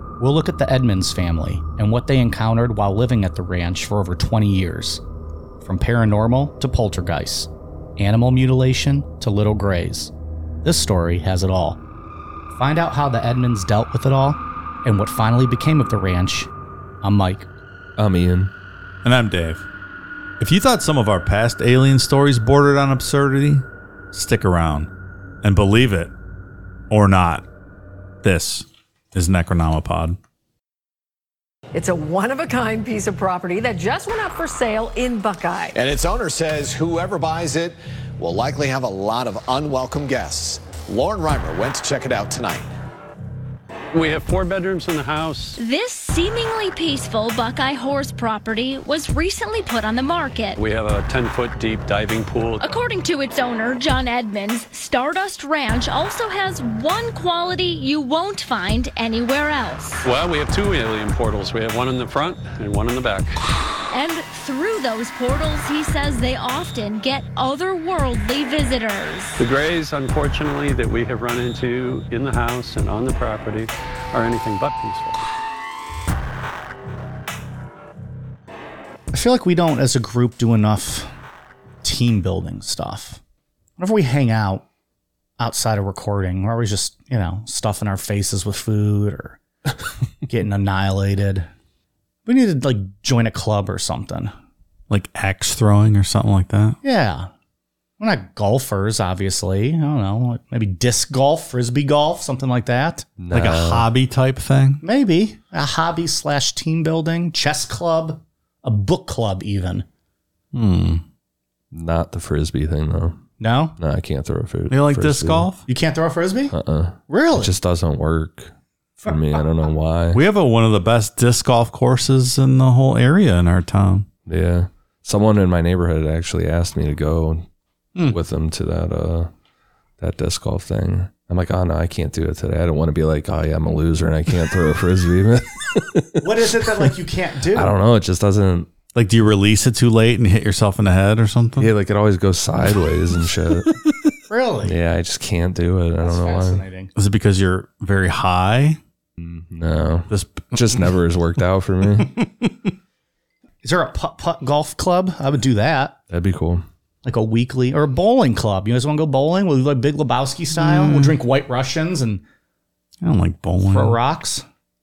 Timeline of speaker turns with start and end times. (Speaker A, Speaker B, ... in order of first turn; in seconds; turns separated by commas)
Speaker A: 0.2-5.0, Speaker A: 5.6-10.1, Speaker A: 10.6-11.8, Speaker A: 12.5-16.5, Speaker A: 17.0-17.5, Speaker B: 18.0-18.5, Speaker C: 19.0-19.6, Speaker C: 20.4-24.9, Speaker C: 25.4-26.1, Speaker C: 26.9-27.4, Speaker C: 28.2-30.2, Speaker D: 31.7-35.8, Speaker E: 35.7-42.6, Speaker F: 43.9-45.6, Speaker G: 45.6-50.6, Speaker F: 50.5-52.6, Speaker G: 52.6-60.0, Speaker F: 60.0-63.4, Speaker G: 63.9-69.4, Speaker F: 69.4-75.2, Speaker A: 79.1-81.1, Speaker A: 81.8-83.2, Speaker A: 83.8-84.6, Speaker A: 85.4-89.4, Speaker A: 90.3-91.5, Speaker A: 92.2-94.3, Speaker C: 94.9-96.8, Speaker A: 96.8-97.3, Speaker A: 98.0-103.2, Speaker B: 103.2-103.9, Speaker C: 103.3-104.8, Speaker A: 104.8-109.8, Speaker C: 110.5-111.0, Speaker B: 111.7-113.2, Speaker A: 113.4-113.8, Speaker B: 113.8-115.5, Speaker C: 114.7-115.6, Speaker A: 115.7-116.5, Speaker B: 116.5-120.2, Speaker A: 117.1-117.6, Speaker C: 120.1-124.1, Speaker B: 124.3-127.5, Speaker B: 128.1-129.3, Speaker B: 130.0-136.8, Speaker A: 136.2-137.7, Speaker B: 137.5-138.7, Speaker C: 138.9-141.7, Speaker B: 141.6-143.8, Speaker A: 144.3-144.8, Speaker B: 144.6-146.6, Speaker A: 146.0-146.9, Speaker C: 146.9-148.8, Speaker B: 149.2-152.2, Speaker C: 150.1-150.6, Speaker A: 153.6-155.9, Speaker B: 156.1-156.6, Speaker A: 157.0-162.2, Speaker C: 160.5-161.2, Speaker C: 163.0-164.0, Speaker A: 163.7-164.4